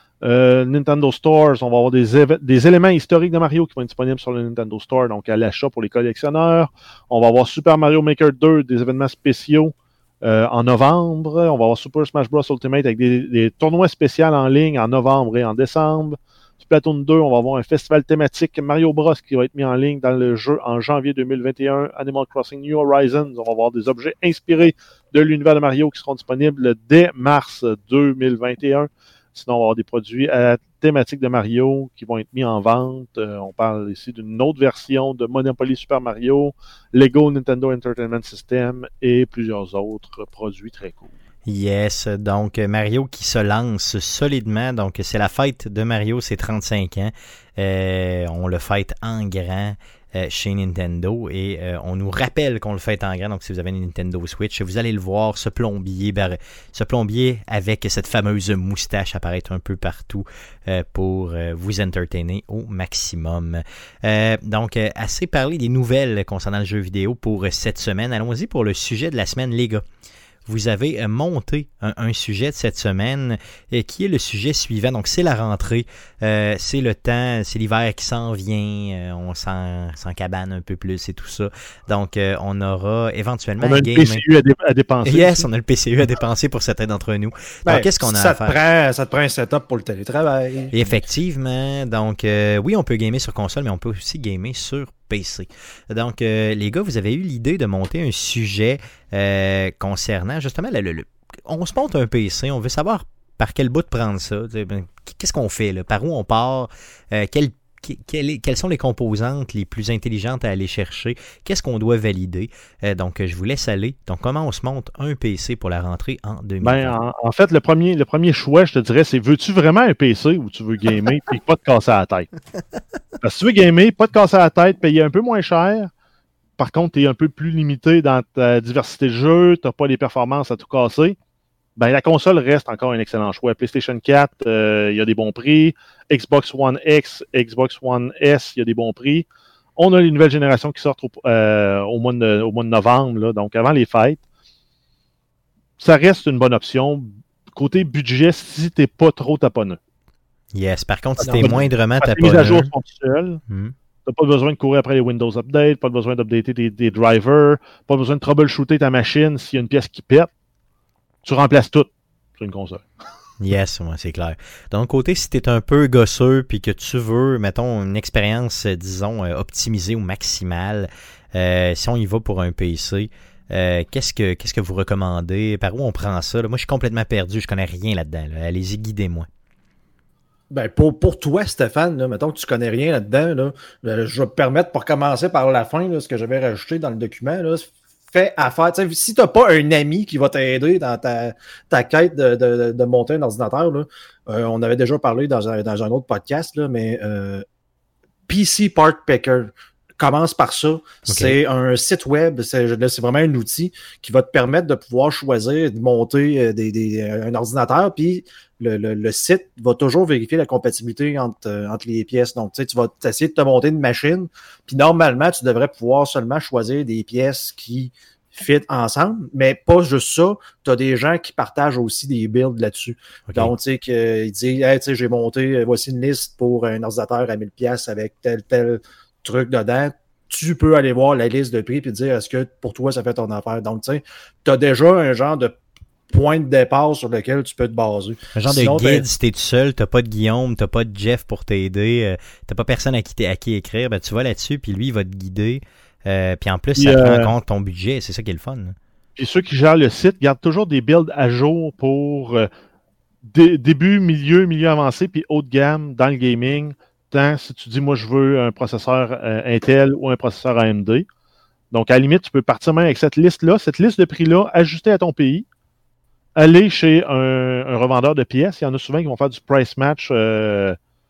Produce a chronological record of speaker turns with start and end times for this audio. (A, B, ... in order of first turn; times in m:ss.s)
0:00.2-0:41.1 A
0:41.4-1:09.8 B
1:10.4-1:24.2 B
1:23.6-1:25.5 A
1:25.0-1:28.6 B
1:27.6-1:31.0 C
1:30.7-1:56.9 B
1:56.6-2:02.3 A
2:03.2-2:05.9 A
2:06.6-2:11.2 A
2:11.8-2:19.2 A
2:19.8-2:24.2 A
2:25.8-2:29.8 A
2:30.5-2:32.7 B
2:31.2-2:33.4 A
2:33.5-2:33.7 B
2:34.0-2:40.3 A
2:41.2-2:42.8 A
2:43.4-2:59.3 B
3:00.5-3:17.4 C
3:18.3-3:55.6 C
3:21.0-3:21.4 B
3:56.1-3:59.0 C
3:58.3-4:08.8 B
4:06.8-4:07.3 A
4:09.2-4:12.5 A
4:13.2-4:21.0 A
4:21.7-4:25.4 A
4:26.4-4:30.8 A